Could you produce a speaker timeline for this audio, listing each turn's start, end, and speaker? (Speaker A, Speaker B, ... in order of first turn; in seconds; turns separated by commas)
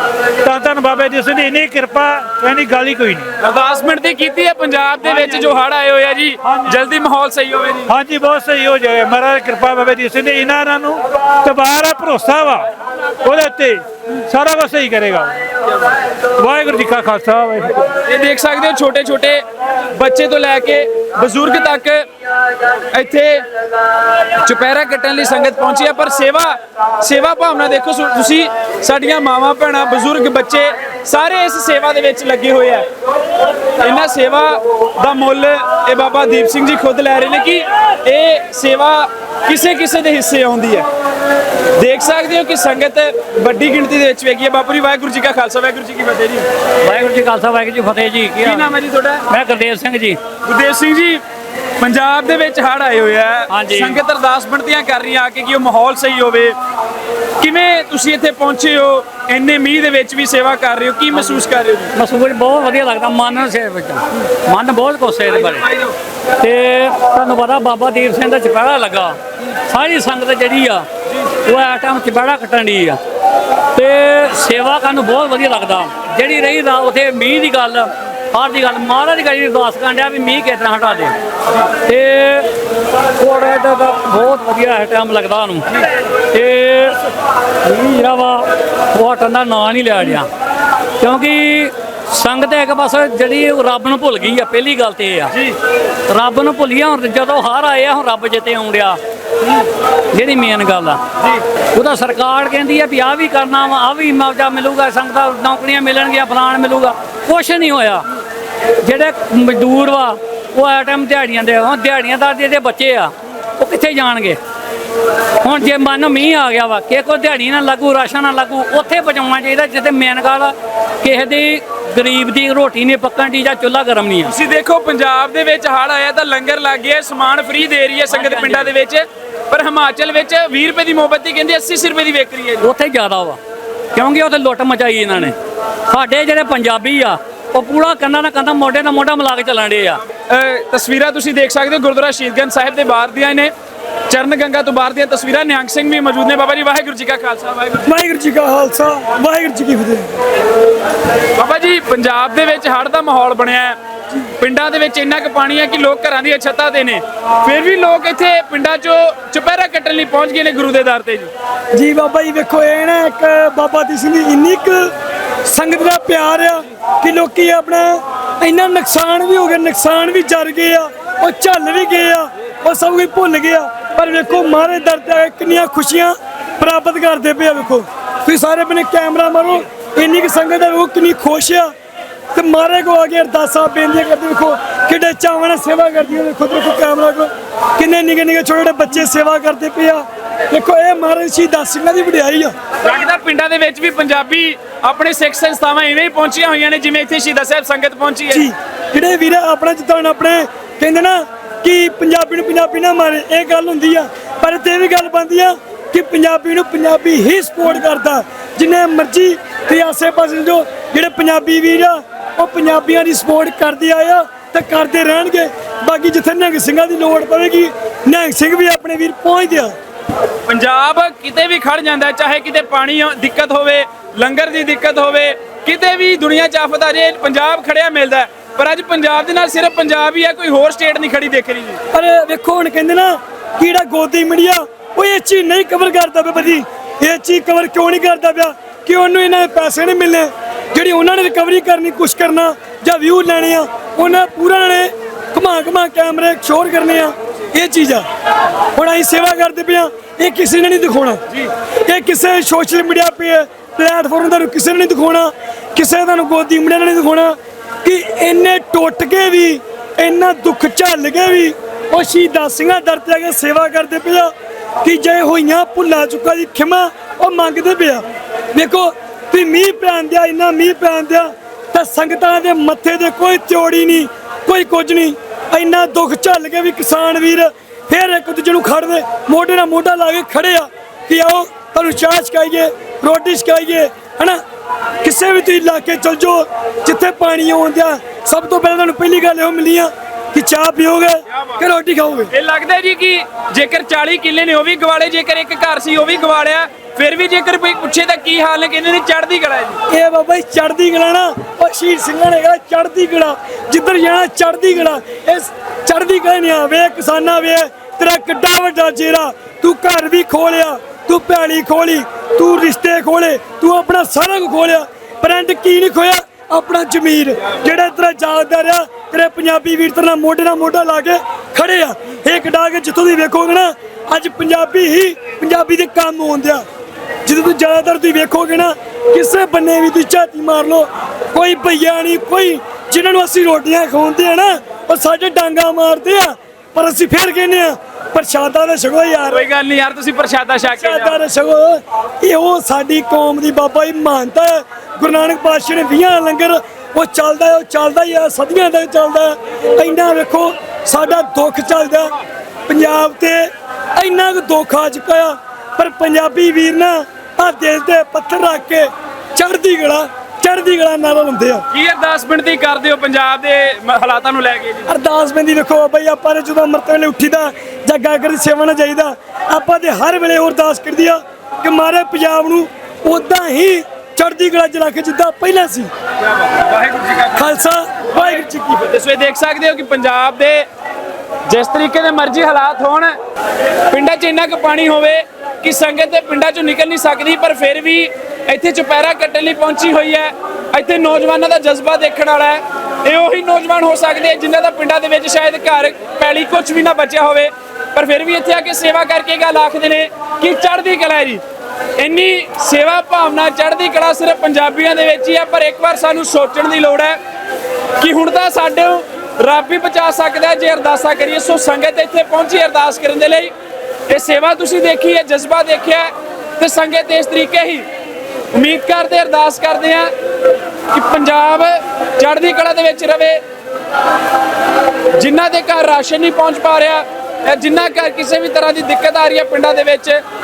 Speaker A: 0.4-3.3, Speaker B: 3.4-7.9, Speaker A: 7.9-12.7, Speaker A: 13.2-15.4, Speaker A: 16.4-17.9, Speaker B: 18.0-19.4, Speaker B: 19.9-22.1, Speaker B: 22.9-23.4, Speaker B: 24.4-32.9, Speaker B: 33.8-40.9, Speaker B: 41.8-46.5, Speaker C: 46.8-48.8, Speaker B: 48.4-49.3, Speaker C: 49.3-50.2, Speaker B: 50.4-51.2, Speaker B: 51.8-56.6, Speaker C: 53.5-54.0, Speaker B: 57.4-61.9, Speaker C: 62.0-65.7, Speaker C: 66.4-73.0, Speaker C: 73.7-81.1, Speaker C: 81.8-82.5, Speaker C: 83.2-85.7, Speaker C: 86.3-87.0, Speaker C: 87.6-90.3, Speaker C: 91.0-95.3, Speaker C: 96.1-99.0, Speaker C: 100.1-101.0, Speaker C: 101.7-108.0, Speaker C: 108.8-114.4, Speaker C: 115.4-124.3, Speaker B: 124.2-132.7, Speaker C: 128.1-128.7, Speaker C: 132.6-133.4, Speaker C: 133.9-135.3, Speaker C: 135.9-140.0, Speaker B: 140.3-143.5, Speaker B: 144.1-147.9, Speaker D: 147.8-150.2, Speaker B: 151.4-153.8, Speaker B: 154.4-161.3, Speaker D: 161.7-164.9, Speaker D: 165.4-181.7, Speaker D: 182.3-192.5, Speaker B: 192.8-198.5, Speaker D: 198.3-219.7, Speaker B: 220.5-231.8, Speaker D: 231.9-248.1, Speaker D: 248.7-251.2, Speaker D: 251.9-284.4, Speaker D: 285.0-292.3, Speaker B: 292.3-299.8, Speaker D: 299.9-326.6, Speaker D: 327.2-339.4, Speaker B: 339.3-341.2, Speaker D: 340.6-352.1, Speaker D: 352.7-361.6, Speaker B: 361.7-364.9, Speaker D: 364.9-375.9, Speaker B: 376.4-377.4, Speaker D: 377.3-378.9, Speaker B: 378.8-380.6, Speaker B: 381.5-383.1, Speaker B: 383.9-401.4, Speaker B: 402.0-407.2, Speaker B: 408.0-413.5, Speaker B: 414.1-417.8, Speaker B: 418.5-420.1, Speaker B: 420.9-423.4, Speaker B: 425.2-430.2